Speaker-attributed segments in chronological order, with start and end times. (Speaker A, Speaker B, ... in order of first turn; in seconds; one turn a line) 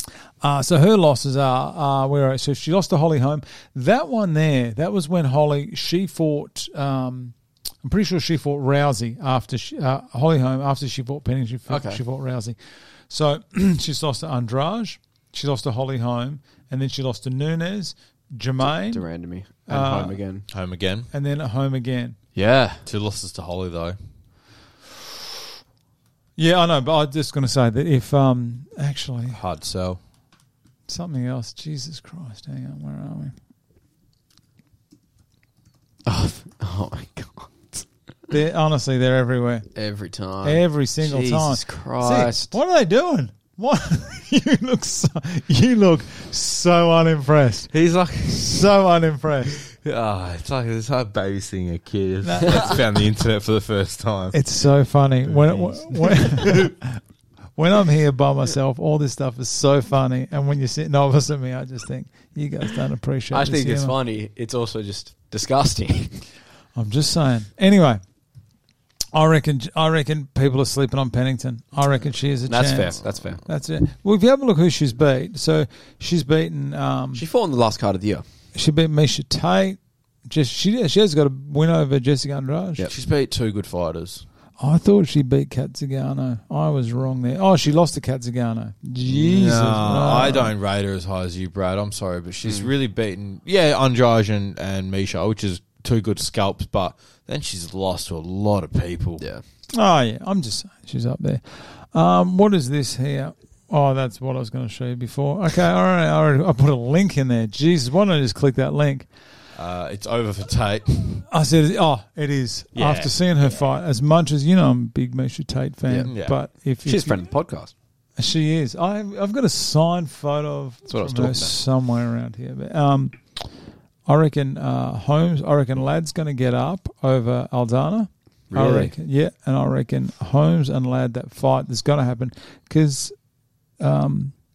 Speaker A: 0.4-12.6
Speaker B: 11.7-12.0
Speaker A: 13.1-19.1
Speaker B: 18.6-20.5
Speaker A: 19.7-20.2
Speaker C: 20.5-21.1
Speaker A: 21.1-22.2
Speaker B: 22.3-22.9
Speaker C: 22.9-24.0
Speaker A: 26.4-29.4
Speaker C: 29.3-30.0
Speaker A: 30.9-33.3
Speaker B: 36.0-37.8
Speaker A: 38.3-39.7
Speaker B: 39.7-42.5
Speaker A: 40.4-47.7
Speaker C: 47.7-48.7
Speaker A: 48.2-49.5
Speaker C: 49.7-54.4
Speaker A: 52.2-52.7
Speaker A: 54.3-57.0
Speaker C: 55.3-56.7
Speaker A: 57.5-63.9
Speaker B: 63.3-66.3
Speaker A: 66.7-68.0
Speaker A: 69.1-77.2
Speaker B: 72.5-73.4
Speaker B: 77.1-78.2
Speaker A: 78.5-82.9
Speaker C: 82.9-84.2
Speaker A: 84.6-90.5
Speaker C: 89.0-99.2
Speaker B: 92.4-92.7
Speaker B: 99.2-99.4
Speaker A: 99.7-109.1
Speaker C: 109.5-111.2
Speaker A: 111.3-117.3
Speaker C: 112.7-113.1
Speaker B: 115.9-116.2
Speaker C: 116.0-116.4
Speaker B: 116.8-117.7
Speaker A: 118.2-123.5
Speaker B: 120.9-121.5
Speaker A: 124.0-133.1
Speaker B: 128.5-128.9
Speaker A: 133.8-134.3